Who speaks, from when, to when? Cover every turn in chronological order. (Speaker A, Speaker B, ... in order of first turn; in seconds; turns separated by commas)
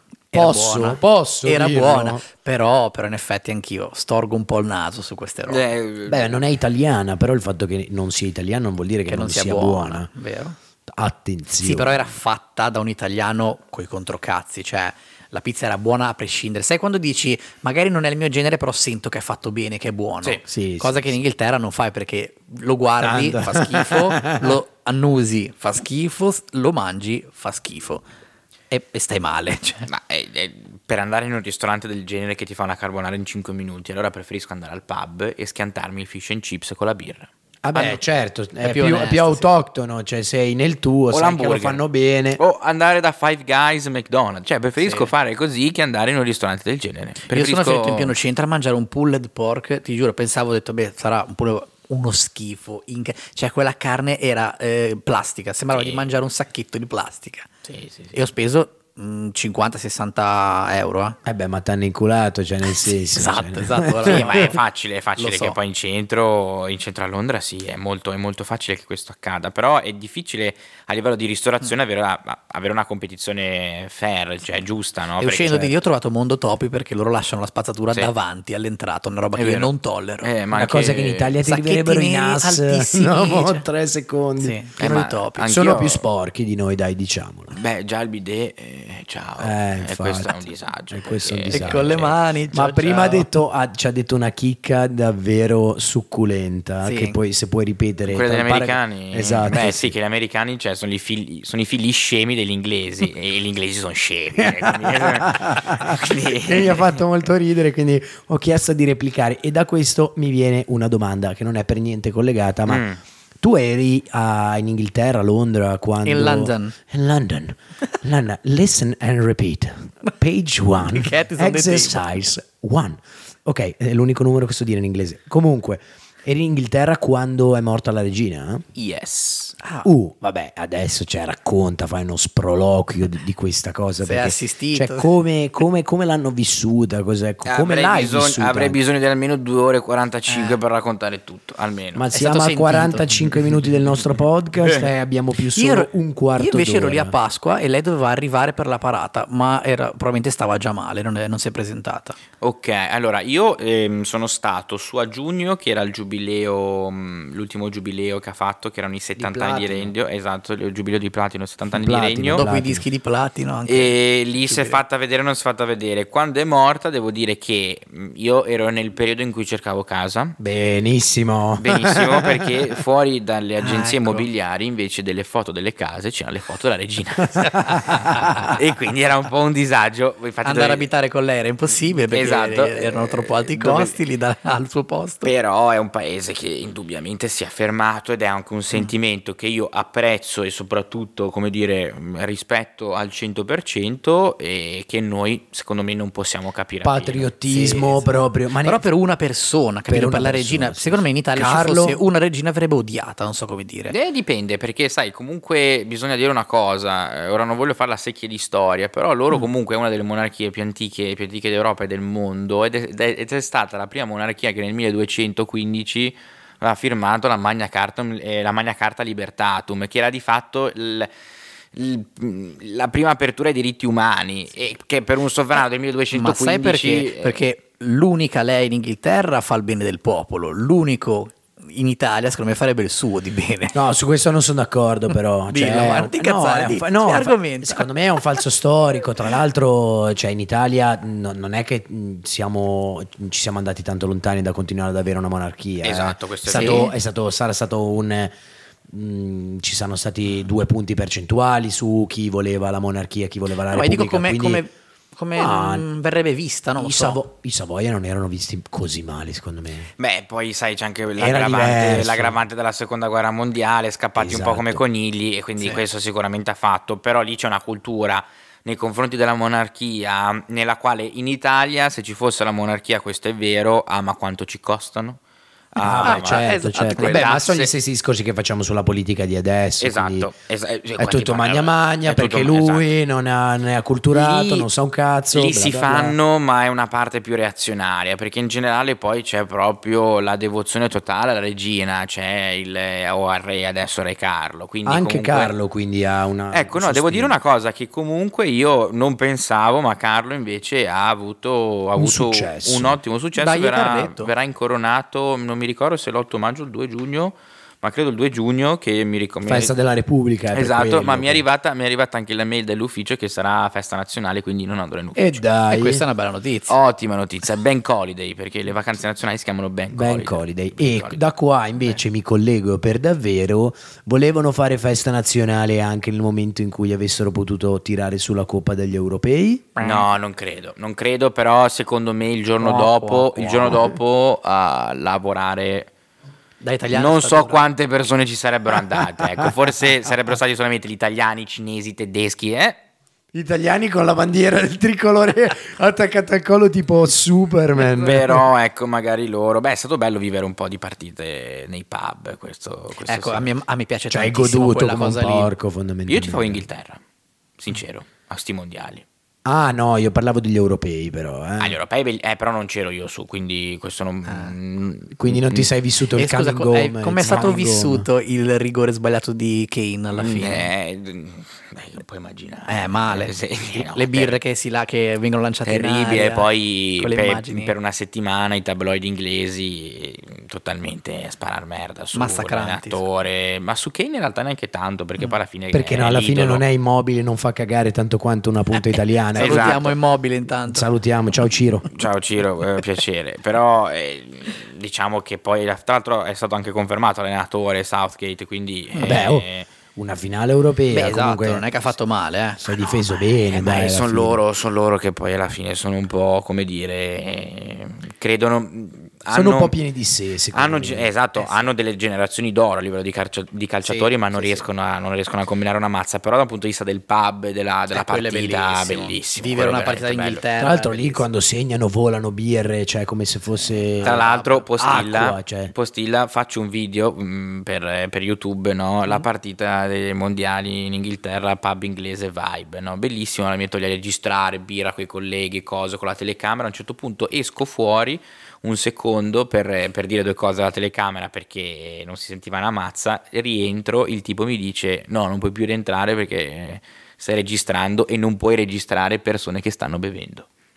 Speaker A: 0.3-5.7, Speaker B: 0.3-2.2, Speaker C: 5.5-6.4, Speaker B: 6.1-10.1, Speaker A: 9.1-10.6, Speaker B: 10.9-12.0, Speaker A: 11.6-28.0, Speaker B: 20.5-21.1, Speaker B: 23.0-24.6, Speaker A: 28.7-29.9, Speaker C: 29.9-37.3, Speaker B: 37.6-42.4, Speaker A: 38.6-39.5, Speaker C: 41.1-41.8, Speaker C: 42.4-48.1, Speaker A: 44.8-45.1, Speaker A: 47.3-61.2, Speaker C: 55.7-56.0, Speaker C: 57.7-58.1, Speaker B: 61.2-64.5, Speaker A: 62.7-64.6, Speaker C: 64.0-75.7, Speaker A: 65.2-65.5, Speaker A: 75.2-80.3, Speaker C: 79.3-81.4, Speaker B: 80.5-87.5, Speaker A: 81.4-83.6, Speaker A: 84.4-85.5, Speaker C: 84.8-86.0, Speaker C: 87.5-92.2, Speaker B: 89.4-99.9, Speaker A: 91.5-93.3, Speaker A: 96.8-97.2, Speaker C: 98.1-107.0, Speaker B: 104.4-112.8, Speaker C: 112.7-113.0, Speaker B: 113.4-128.6, Speaker A: 116.0-116.8, Speaker A: 120.8-122.0, Speaker C: 128.8-129.6, Speaker A: 129.6-129.9, Speaker B: 129.8-138.8, Speaker A: 134.0-135.1, Speaker C: 137.4-142.0, Speaker A: 140.3-140.6, Speaker B: 141.9-147.2, Speaker A: 142.1-143.5, Speaker A: 145.5-152.2, Speaker C: 152.4-162.5, Speaker B: 159.2-159.9, Speaker B: 161.7-162.8, Speaker A: 162.3-164.8, Speaker C: 163.7-170.4, Speaker B: 170.4-172.6, Speaker C: 171.6-180.8, Speaker A: 173.6-174.2, Speaker B: 177.7-178.4, Speaker A: 180.4-185.3, Speaker C: 182.1-184.0, Speaker C: 185.2-197.3, Speaker B: 196.8-198.8, Speaker A: 197.5-198.1, Speaker A: 198.6-203.9, Speaker B: 199.9-202.0, Speaker C: 203.9-221.1, Speaker C: 221.7-227.4, Speaker A: 226.1-233.8, Speaker B: 233.7-248.3, Speaker A: 235.5-237.9, Speaker C: 245.8-246.9, Speaker A: 246.5-246.9, Speaker B: 248.9-254.6, Speaker A: 253.7-257.2, Speaker B: 255.3-255.8, Speaker B: 256.8-259.9, Speaker C: 260.0-275.2, Speaker B: 261.2-262.4, Speaker B: 264.2-264.8, Speaker C: 275.7-277.7, Speaker B: 275.8-280.3, Speaker A: 276.0-277.3, Speaker C: 279.8-282.8, Speaker B: 281.0-286.2, Speaker C: 284.1-284.7, Speaker C: 285.3-295.5, Speaker B: 294.9-297.3, Speaker C: 296.5-309.7, Speaker B: 302.0-303.0, Speaker A: 303.4-304.3, Speaker B: 309.4-311.4, Speaker C: 310.5-315.4, Speaker B: 315.1-316.0, Speaker A: 315.7-316.8, Speaker C: 316.7-321.2, Speaker B: 319.9-329.7, Speaker A: 329.8-330.1, Speaker C: 329.8-335.9, Speaker A: 332.6-333.9, Speaker A: 336.6-337.6, Speaker C: 336.9-342.8, Speaker B: 343.3-348.5, Speaker C: 347.7-353.5, Speaker A: 353.1-355.5, Speaker B: 354.1-356.6, Speaker C: 356.1-357.0, Speaker C: 357.6-359.0, Speaker B: 359.4-361.8, Speaker C: 361.6-365.7, Speaker A: 364.3-364.5, Speaker B: 365.1-368.1, Speaker A: 366.1-370.7, Speaker C: 367.2-367.5, Speaker C: 370.1-374.4, Speaker A: 372.7-377.7, Speaker C: 375.6-386.6, Speaker A: 382.1-383.0, Speaker B: 385.7-389.9, Speaker A: 389.3-390.9, Speaker C: 389.3-389.9, Speaker B: 390.7-391.9, Speaker C: 391.9-399.7, Speaker A: 398.9-399.2, Speaker B: 399.0-401.6, Speaker A: 400.9-403.0, Speaker B: 402.6-404.4, Speaker C: 403.5-409.7, Speaker B: 409.3-411.1, Speaker C: 410.5-420.4, Speaker A: 411.4-411.6, Speaker A: 413.9-414.6, Speaker A: 417.9-421.2, Speaker B: 420.6-424.3, Speaker A: 423.6-424.7, Speaker C: 424.0-450.5, Speaker B: 424.8-425.7